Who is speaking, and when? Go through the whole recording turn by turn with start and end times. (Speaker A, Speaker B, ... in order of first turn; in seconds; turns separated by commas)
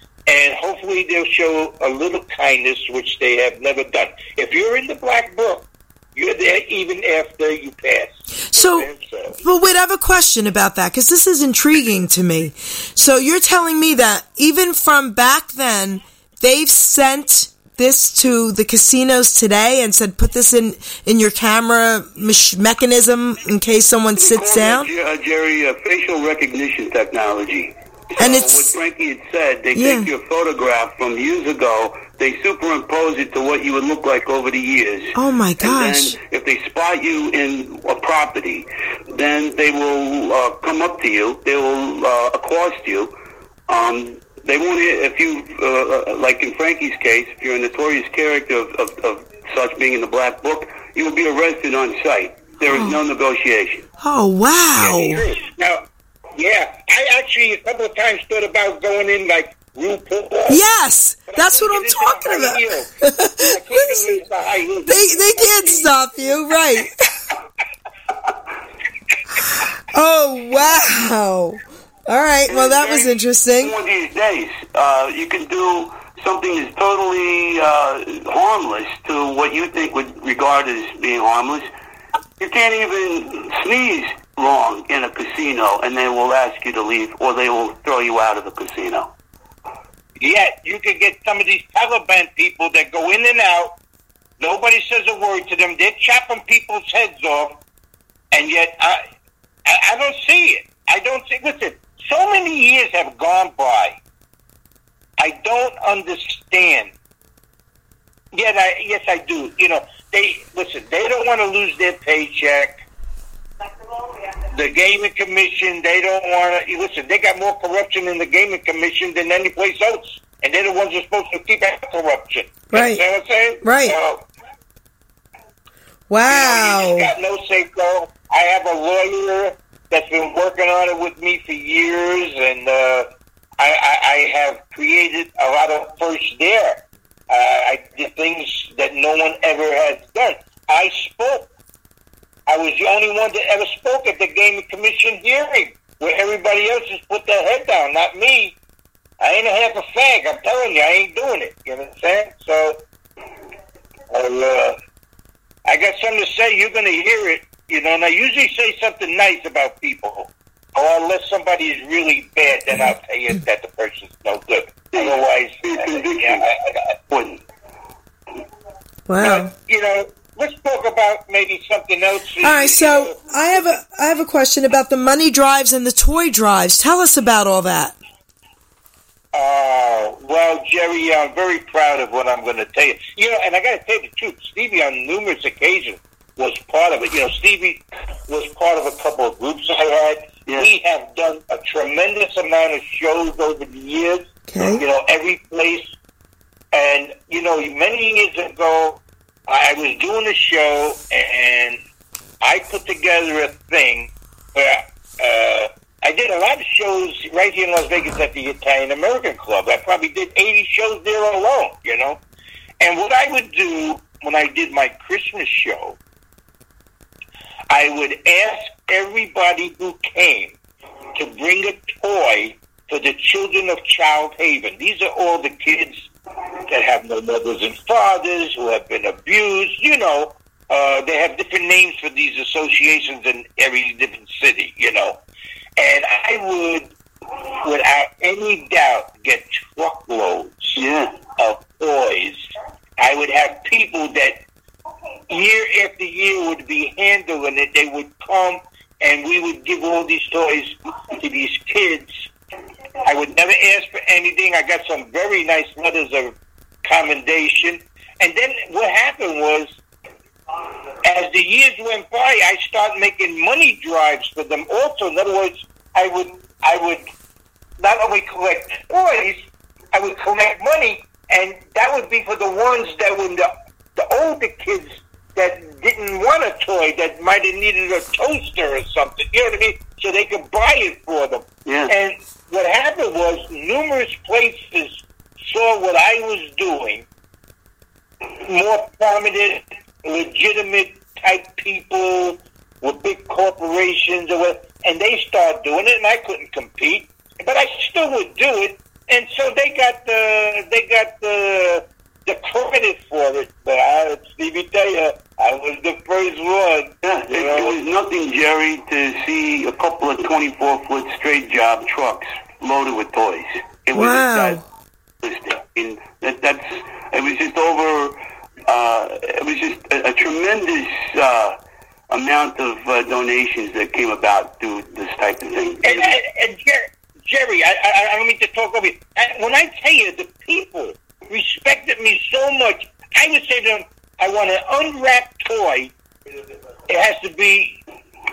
Speaker A: 0.3-9.4, Speaker B: 8.5-8.9, Speaker B: 9.4-24.9, Speaker C: 24.2-43.1, Speaker B: 28.2-28.7, Speaker B: 29.8-30.1, Speaker B: 35.1-36.2, Speaker C: 43.7-53.9, Speaker B: 52.7-53.0, Speaker B: 54.0-55.2, Speaker A: 54.8-55.8, Speaker A: 56.4-60.6, Speaker B: 60.5-64.2, Speaker A: 61.3-66.0, Speaker B: 64.9-66.9, Speaker B: 69.9-73.7, Speaker C: 72.5-81.7, Speaker C: 82.4-89.1, Speaker A: 90.2-93.8, Speaker A: 94.4-97.6, Speaker A: 98.3-99.0, Speaker A: 99.7-104.0, Speaker A: 105.2-106.9, Speaker A: 108.3-112.7, Speaker A: 114.5-124.2, Speaker B: 122.7-123.0, Speaker B: 123.6-124.0, Speaker B: 126.1-127.1, Speaker A: 126.3-133.1, Speaker A: 133.6-141.5, Speaker A: 142.5-148.6, Speaker A: 149.2-152.8, Speaker A: 154.1-154.8, Speaker A: 155.7-166.9, Speaker C: 164.9-166.4, Speaker C: 167.1-167.4, Speaker B: 169.1-169.5, Speaker A: 169.2-173.2, Speaker B: 172.4-178.0, Speaker A: 179.3-195.8, Speaker B: 194.5-194.8, Speaker A: 196.7-201.8, Speaker A: 202.4-212.2, Speaker A: 212.8-216.0, Speaker A: 217.7-220.6, Speaker A: 221.2-226.1, Speaker A: 226.7-235.2, Speaker A: 235.8-236.9, Speaker A: 237.6-240.8, Speaker C: 240.8-241.1, Speaker A: 241.4-242.4, Speaker A: 243.0-244.4, Speaker A: 245.3-252.1, Speaker A: 253.1-259.7, Speaker A: 261.0-267.0, Speaker A: 267.8-287.1, Speaker C: 281.6-281.9, Speaker A: 288.4-307.8, Speaker C: 307.0-314.6, Speaker B: 313.9-314.6, Speaker C: 315.2-321.6, Speaker C: 322.1-326.1, Speaker A: 325.8-335.9, Speaker A: 336.9-337.8